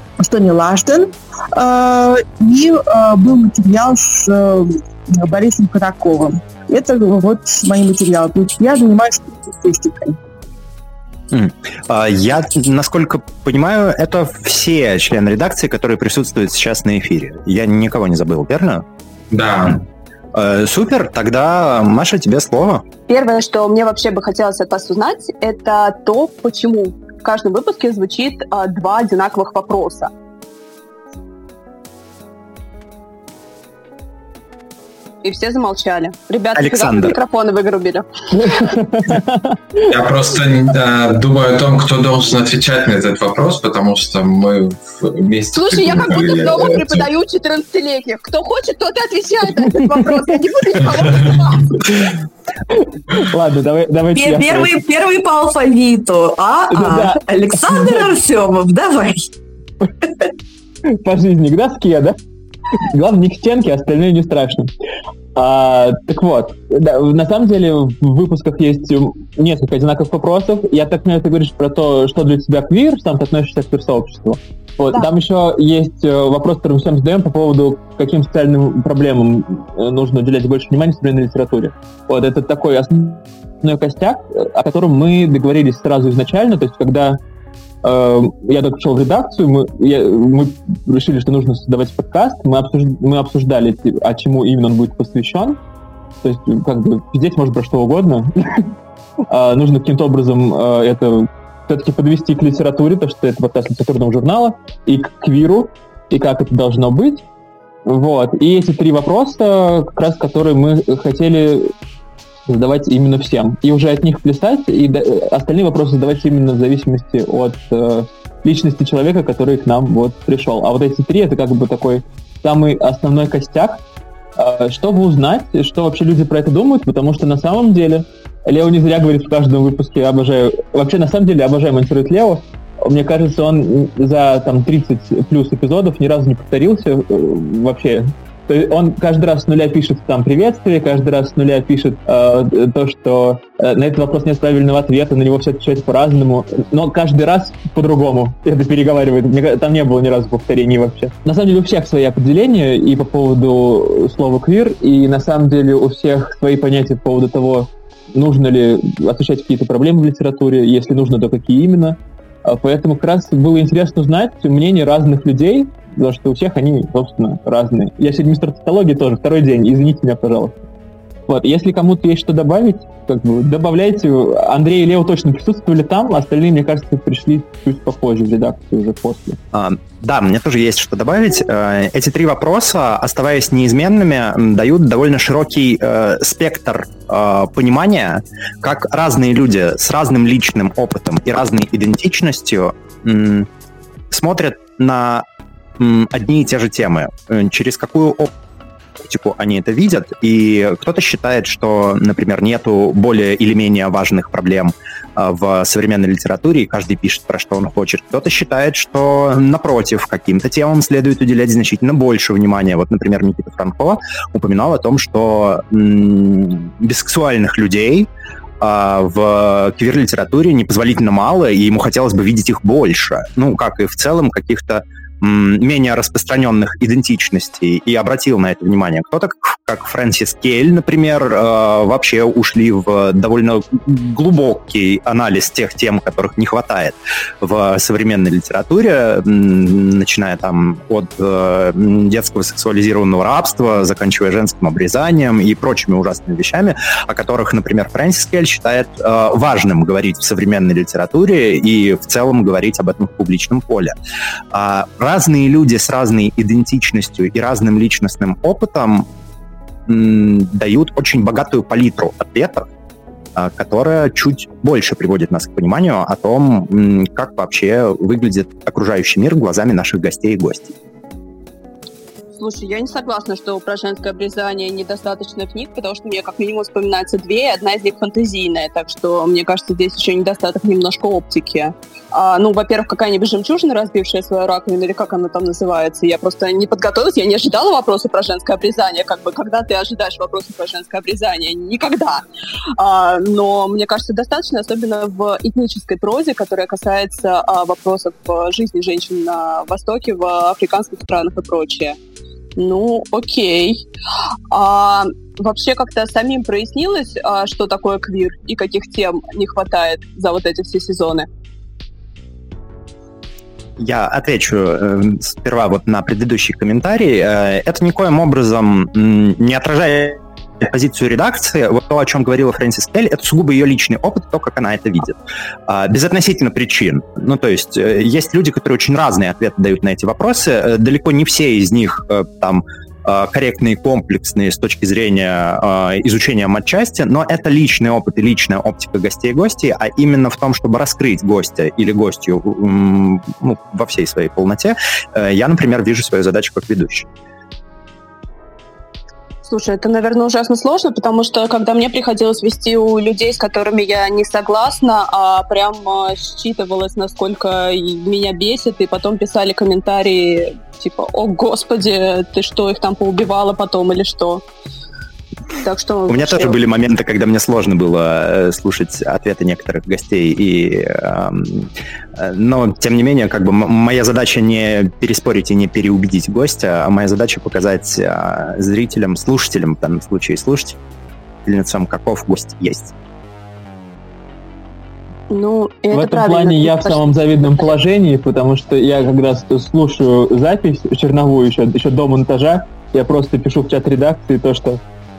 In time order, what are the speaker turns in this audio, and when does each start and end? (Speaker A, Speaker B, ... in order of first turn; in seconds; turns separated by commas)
Speaker A: 0.2-10.2, Speaker B: 11.3-18.9, Speaker C: 19.3-19.8, Speaker B: 20.3-22.8, Speaker D: 23.1-30.1, Speaker D: 35.2-38.7, Speaker B: 36.5-37.2, Speaker E: 38.4-39.6, Speaker C: 39.9-47.1, Speaker D: 45.5-51.8, Speaker E: 52.7-54.7, Speaker F: 54.1-59.3, Speaker E: 56.7-58.1, Speaker E: 60.9-62.2, Speaker E: 62.8-64.7, Speaker E: 65.3-87.2, Speaker E: 87.8-95.6, Speaker E: 96.2-98.7, Speaker E: 99.3-107.2, Speaker E: 107.9-111.7, Speaker E: 112.5-123.8, Speaker E: 124.4-170.6, Speaker E: 171.3-179.4, Speaker B: 179.5-193.5, Speaker B: 194.1-195.3, Speaker B: 195.8-198.3, Speaker B: 199.0-218.1, Speaker B: 218.6-253.9, Speaker B: 254.5-259.1, Speaker B: 259.9-262.7, Speaker B: 263.4-270.8, Speaker D: 272.4-292.2, Speaker D: 292.8-302.0, Speaker D: 302.6-303.8, Speaker D: 304.5-311.3, Speaker B: 313.8-347.1, Speaker D: 349.5-364.4, Speaker D: 365.6-366.6, Speaker B: 366.1-380.8, Speaker B: 381.4-382.9, Speaker D: 385.3-387.7, Speaker E: 385.9-394.8